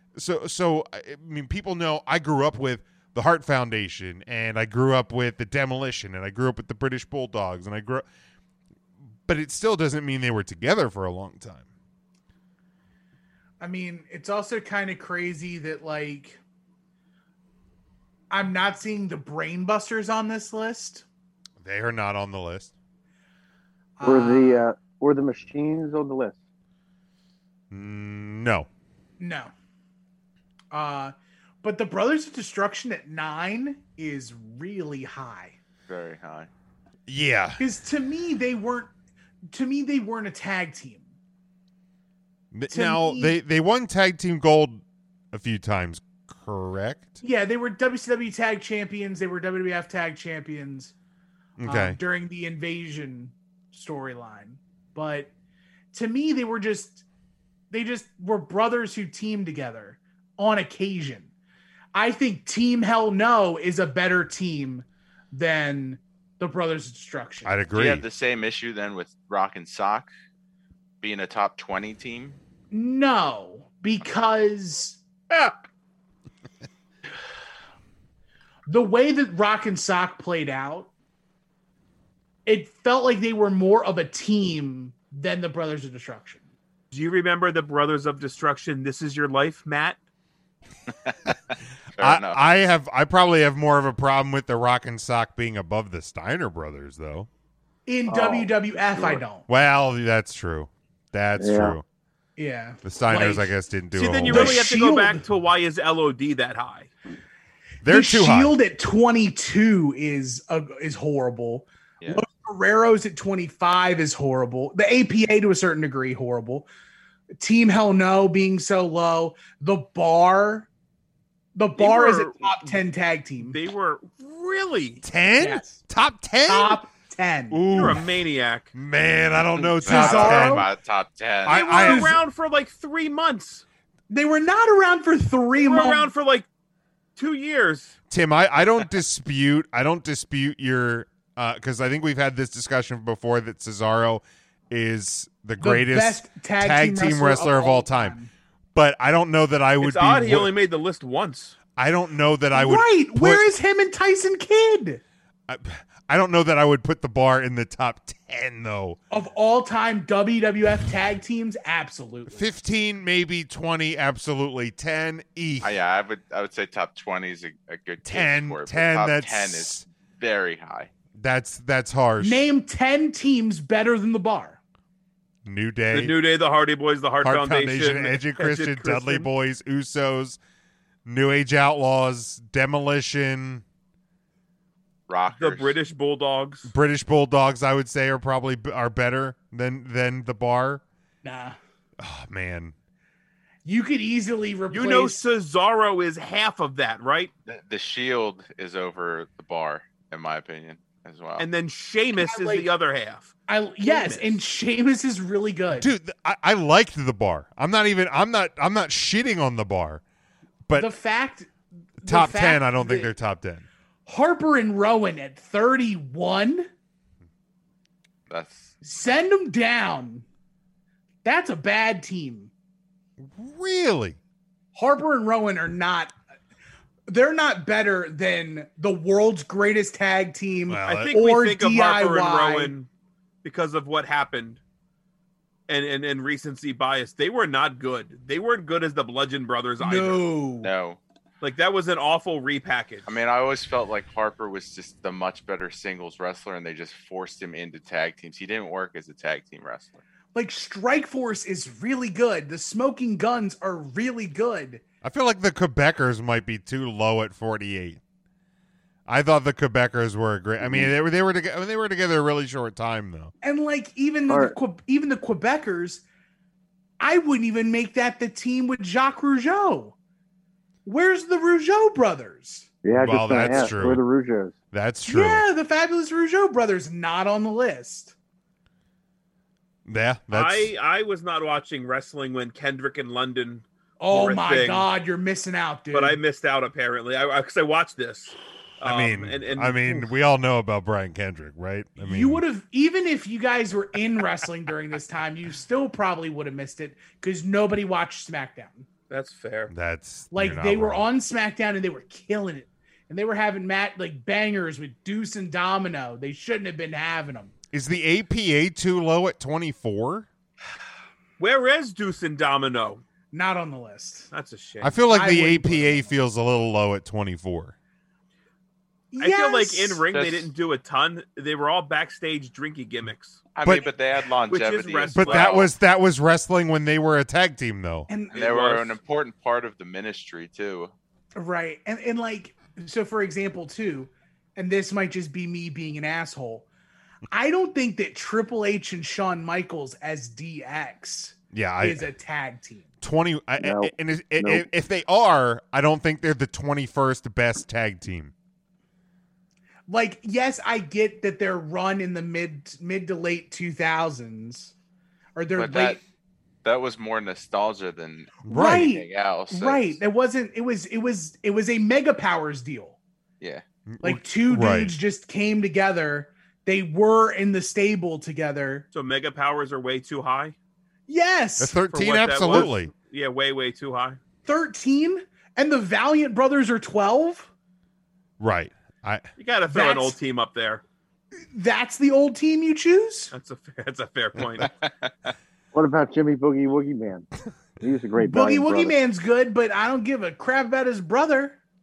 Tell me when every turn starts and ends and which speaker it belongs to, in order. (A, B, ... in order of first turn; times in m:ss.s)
0:00.2-0:08.0 A
0:09.2-0:11.7 A
0:13.6-0:16.4 B
0:18.3-0:21.0 B
0:21.6-0:22.7 A
0:24.0-0:24.7 B
0:24.0-0:26.4 C
0:27.7-0:28.7 A
0:29.2-0:29.5 B
0:30.7-0:35.5 B
0:35.9-0:36.5 D
0:37.1-0:37.6 A
0:37.6-0:38.9 B
0:39.5-0:41.0 B
0:42.5-0:47.1 A
0:42.7-0:43.4 B
0:47.2-0:50.9 B
0:51.6-0:52.0 A
0:51.6-0:55.3 B
0:55.9-0:57.0 B
0:57.7-1:01.3 B
1:01.9-1:07.5 B
1:07.4-1:08.0 A
1:07.7-1:10.1 D
1:11.0-1:12.4 D
1:12.7-1:15.0 B
1:18.7-1:20.9 B
1:22.4-1:26.4 B
1:26.9-1:30.0 E
1:32.0-1:32.4 D
1:32.0-1:37.3 A
1:37.8-1:39.4 B
1:38.1-1:39.2 C
1:39.5-1:41.8 A
1:41.4-1:41.8 C
1:42.4-1:43.5 B
1:42.8-1:44.6 A
1:43.9-1:46.9 E
1:44.3-1:45.2 B
1:47.8-1:48.5 A
1:47.9-1:56.7 B
1:57.4-2:00.7 B
2:01.5-2:03.6 B
2:01.8-2:02.8 E
2:03.4-2:05.0 E
2:05.0-2:06.8 A
2:05.4-2:05.8 B
2:06.4-2:07.6 B
2:07.5-2:08.1 A
2:07.7-2:08.7 E
2:08.7-2:10.7 A
2:09.8-2:11.7 D
2:09.8-2:10.6 B
2:11.4-2:12.2 A
2:11.5-2:13.6 E
2:11.6-2:12.2 B
2:14.1-2:16.1 B
2:15.6-2:16.5 E
2:17.2-2:17.9 E
2:18.1-2:28.2 A
2:25.6-2:28.3 B
2:28.7-2:30.5 A
2:29.8-2:31.6 E
2:31.8-2:33.4 A
2:32.5-2:35.0 B
2:35.5-2:39.0 A
2:39.1-2:42.4 B
2:42.3-2:45.7 A
2:45.6-2:50.9 D
2:48.0-2:49.8 A
2:51.2-2:52.4 A
2:52.2-2:54.6 B
2:55.4-2:56.2 A
2:55.9-2:59.3 E
2:57.2-3:00.4 A
3:01.0-3:03.6 A
3:05.1-3:05.8 D
3:05.4-3:06.7 E
3:06.7-3:10.8 A
3:11.2-3:11.6 B
3:12.0-3:12.7 A
3:13.6-3:15.2 B
3:14.7-3:17.3 E
3:17.5-3:21.5 D
3:21.4-3:24.4 E
3:22.2-3:22.7 B
3:23.5-3:25.9 B
3:25.7-3:30.0 A
3:30.7-3:33.1 B
3:32.0-3:33.6 A
3:34.0-3:36.7 B
3:38.3-3:38.7 D
3:38.8-3:40.2 B
3:41.2-3:42.5 B
3:43.3-3:44.2 A
3:44.7-3:46.1 B
3:47.1-3:52.7 B
3:50.7-3:51.1 A
3:50.8-3:52.9 E
3:53.4-3:54.6 E
3:55.7-4:00.2 E
3:59.8-4:00.7 B
4:00.6-4:01.0 D
4:01.4-4:03.0 E
4:03.0-4:10.0 D
4:10.3-4:14.8 B
4:15.0-4:18.0 A
4:19.1-4:23.3 A
4:20.6-4:20.9 C
4:23.4-4:26.0 B
4:24.3-4:24.5 C
4:27.0-4:29.9 B
4:30.8-4:32.7 B
4:32.8-4:34.5 C
4:32.9-4:34.0 A
4:34.7-4:35.4 A
4:35.0-4:38.1 B
4:39.8-4:40.7 A
4:40.3-4:44.9 E
4:44.0-4:46.2 B
4:45.9-4:50.0 E
4:48.8-4:52.4 A
4:52.0-4:58.9 B
4:59.1-4:59.7 E
4:59.7-5:01.1 A
5:00.3-5:07.5 B
5:07.7-5:10.3 A
5:11.4-5:13.0 E
5:13.3-5:14.3 B
5:14.3-5:15.0 E
5:14.8-5:17.7 A
5:15.1-5:16.1 B
5:19.1-5:20.0 B
5:19.2-5:23.4 E
5:20.1-5:20.5 D
5:23.5-5:25.7 D
5:23.6-5:23.9 A
5:24.5-5:25.7 E
5:25.1-5:28.1 A
5:28.1-5:28.4 B
5:28.3-5:30.9 D
5:28.3-5:29.0 E
5:31.4-5:36.6 B
5:37.3-5:42.8 B
5:41.5-5:42.1 A
5:43.0-5:48.3 A
5:43.6-5:44.6 C
5:49.9-5:54.7 B
5:55.4-5:56.0 B
5:55.5-5:56.0 D
5:56.6-6:00.0 D
5:58.4-6:03.0 B
5:58.5-5:58.9 A
6:04.0-6:04.9 A
6:04.0-6:08.8 B
6:08.9-6:10.5 E
6:11.1-6:11.8 B
6:11.6-6:12.9 A
6:11.9-6:14.2 E
6:14.4-6:17.5 B
6:18.4-6:19.2 A
6:19.4-6:20.8 E
6:19.7-6:20.2 B
6:21.5-6:23.3 B
6:23.3-6:24.7 E
6:25.7-6:27.3 C
6:27.8-6:29.0 C
6:28.2-6:31.6 B